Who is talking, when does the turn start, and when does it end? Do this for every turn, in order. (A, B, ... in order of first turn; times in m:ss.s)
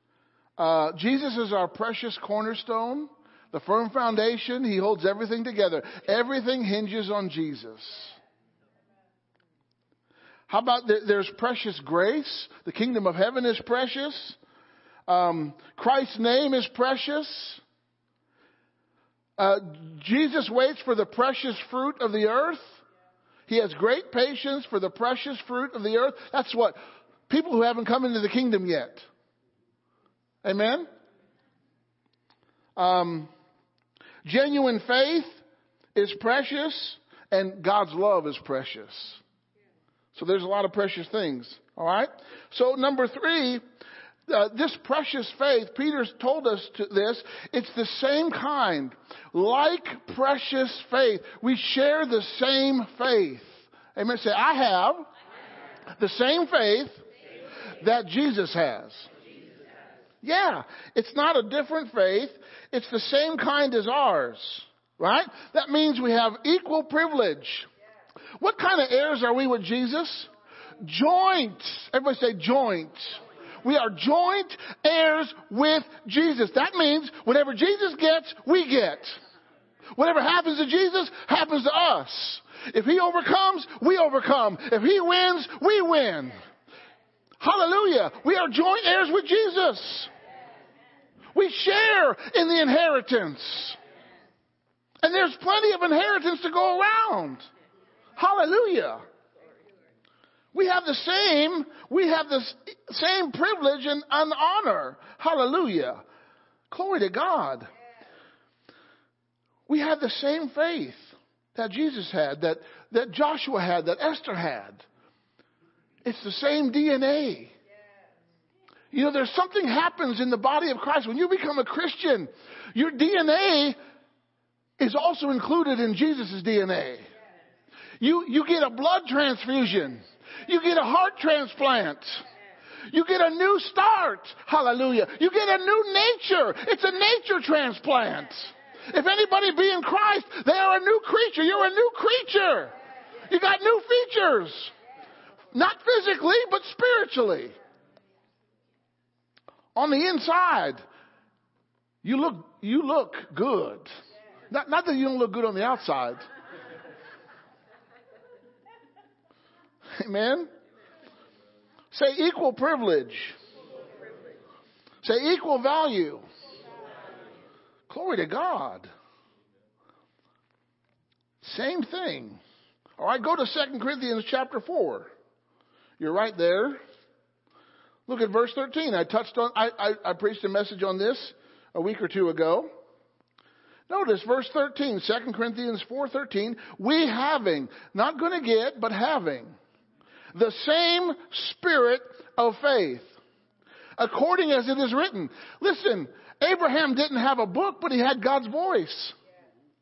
0:00.6-0:08.2 A
0:10.5-0:14.4 A
0:15.1-0:17.6 A
0:19.4-0:22.8 A
0:23.5-0:29.1 A
0:30.4-0:30.9 A
0:32.8-0:33.3 A
0:34.2-0:35.4 A
0:35.9-0:39.2 A
0:40.1-0:43.6 A
0:44.3-0:55.1 A
0:56.0-0:57.0 A
0:57.8-0:59.1 A
1:00.2-1:07.7 A
1:08.4-1:19.2 A
1:19.9-1:26.4 A
1:27.4-1:30.1 A
1:31.3-1:33.8 A
1:35.0-1:37.5 A
1:38.2-1:39.0 A
1:40.5-1:46.0 A
1:46.7-1:47.7 A
1:49.7-1:54.8 A
1:56.0-1:57.5 A
1:58.9-2:03.8 A
2:04.8-2:07.1 A
2:08.0-2:12.2 A
2:12.9-2:22.7 A
2:23.3-2:24.7 A
2:25.5-2:27.6 A
2:29.7-2:30.8 A
2:32.0-2:33.9 A
2:34.5-2:36.2 A
2:40.0-2:40.5 A
2:41.9-2:43.4 A
2:45.0-2:46.2 A
2:47.9-2:48.9 A
2:51.4-2:52.4 A
2:53.0-2:55.1 A
2:56.0-2:56.8 A
2:58.1-3:02.7 A
3:03.9-3:09.6 A
3:10.3-3:13.1 A
3:14.0-3:19.1 A